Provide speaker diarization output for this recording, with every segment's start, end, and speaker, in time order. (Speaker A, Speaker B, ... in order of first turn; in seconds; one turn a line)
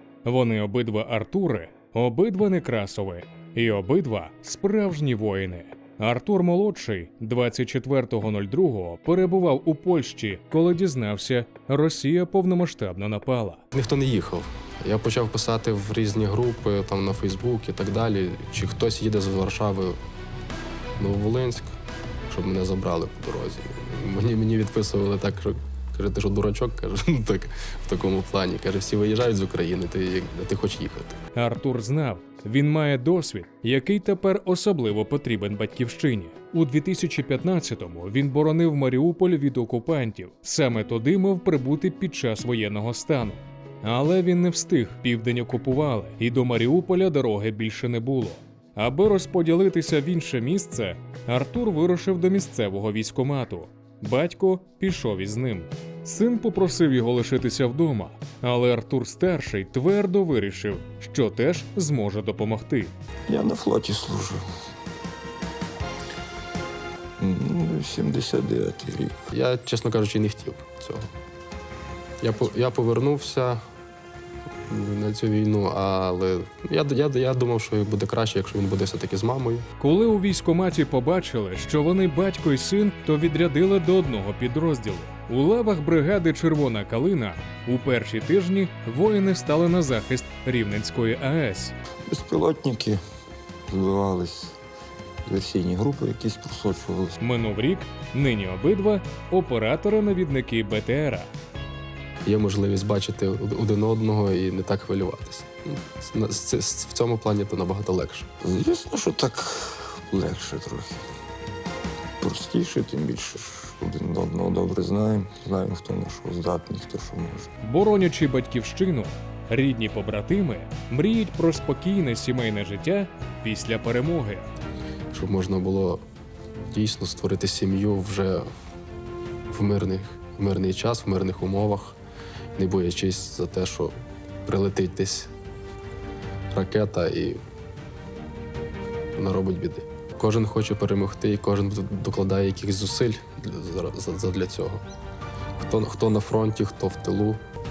Speaker A: 0.2-13.6
Speaker B: 13.7-20.0
Speaker B: 21.0-21.7
Speaker B: 22.3-31.2
Speaker A: 31.3-62.9
Speaker C: 63.3-64.5
Speaker C: 67.2-69.2
Speaker B: 69.3-71.1
Speaker B: 72.2-73.6
Speaker B: 74.7-79.7
Speaker A: 79.8-91.7
Speaker C: 92.1-93.0
Speaker C: 93.7-94.6
Speaker C: 95.3-97.2
Speaker A: 97.2-101.3
Speaker B: 102.2-108.3
Speaker C: 108.4-111.0
Speaker C: 112.2-117.5
Speaker A: 117.6-124.5
Speaker B: 125.1-126.0
Speaker B: 126.7-128.5
Speaker B: 129.5-132.0
Speaker B: 132.6-135.3
Speaker B: 136.5-137.4
Speaker B: 139.2-144.8
Speaker B: 145.6-147.4